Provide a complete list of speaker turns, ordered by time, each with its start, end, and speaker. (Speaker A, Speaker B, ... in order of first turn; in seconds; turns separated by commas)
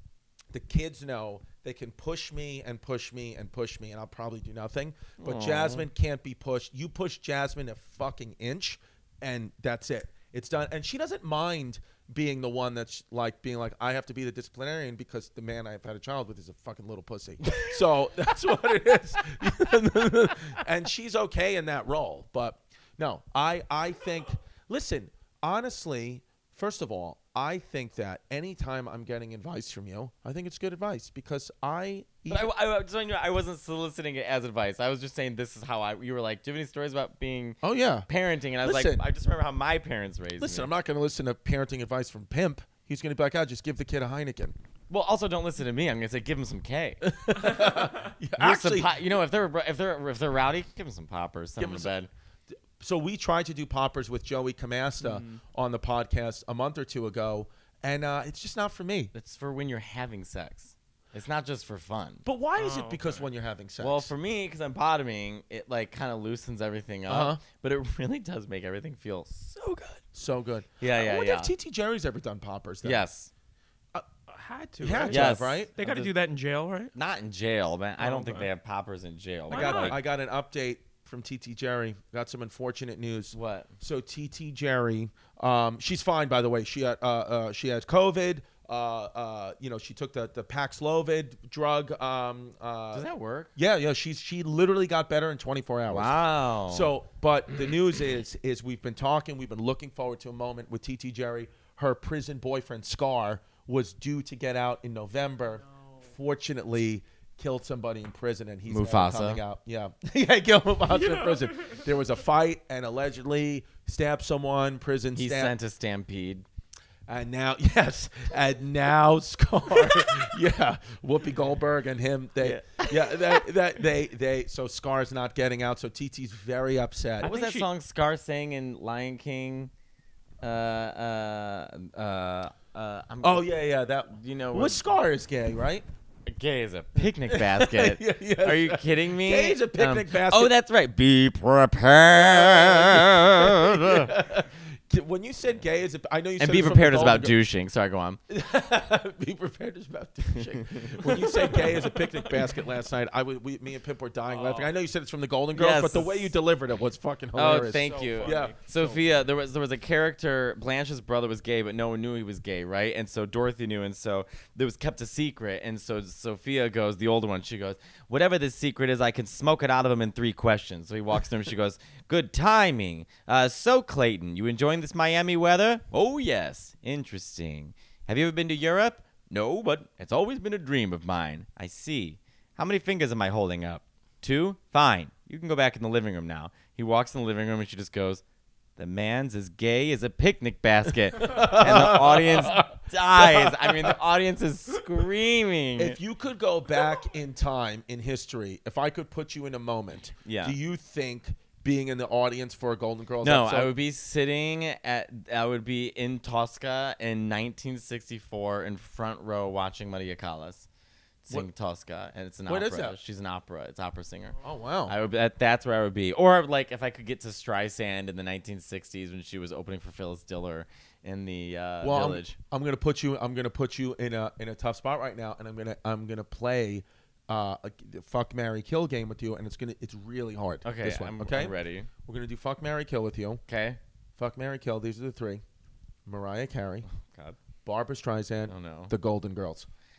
Speaker A: 0.5-32.5, Speaker B: 5.2-5.9, Speaker B: 32.3-40.7, Speaker A: 37.6-38.1, Speaker A: 38.6-39.0, Speaker A: 40.4-44.5, Speaker B: 44.9-47.8, Speaker A: 47.0-49.0, Speaker B: 48.4-52.1, Speaker A: 51.6-51.9, Speaker A: 52.8-59.1, Speaker C: 55.0-55.4, Speaker B: 59.1-62.2, Speaker A: 62.2-64.1, Speaker C: 62.5-63.3, Speaker B: 63.8-70.0, Speaker A: 67.1-67.4, Speaker A: 70.1-73.0, Speaker B: 70.8-71.5, Speaker B: 72.8-73.3, Speaker C: 74.3-76.9, Speaker A: 74.8-75.7, Speaker B: 75.1-76.1, Speaker B: 76.9-80.0, Speaker C: 78.0-78.5, Speaker C: 79.5-80.0, Speaker A: 79.5-115.5, Speaker B: 83.3-83.7, Speaker B: 92.9-93.5, Speaker B: 95.9-96.9, Speaker B: 108.7-109.4, Speaker C: 110.9-111.8, Speaker B: 115.1-116.5, Speaker A: 117.1-127.3, Speaker B: 122.4-123.4, Speaker B: 127.2-129.7, Speaker C: 127.2-127.7, Speaker B: 130.4-133.5, Speaker A: 133.2-135.8, Speaker B: 134.1-134.8, Speaker B: 136.2-144.1, Speaker A: 137.3-140.5, Speaker A: 142.2-147.4, Speaker B: 146.4-148.2, Speaker A: 148.3-158.5, Speaker B: 150.3-151.9, Speaker C: 154.3-154.7, Speaker B: 155.5-156.3, Speaker B: 157.3-188.2, Speaker C: 157.6-159.1, Speaker B: 188.8-196.0, Speaker A: 191.2-193.9, Speaker A: 195.8-203.7, Speaker B: 200.2-200.6, Speaker B: 203.2-210.7, Speaker B: 211.2-222.4, Speaker A: 212.5-213.0, Speaker A: 214.4-214.9, Speaker A: 221.8-233.4, Speaker B: 230.6-231.9, Speaker B: 233.5-233.8, Speaker A: 234.2-235.4, Speaker A: 236.1-236.9, Speaker B: 236.9-237.4, Speaker A: 237.6-239.7, Speaker B: 238.5-238.9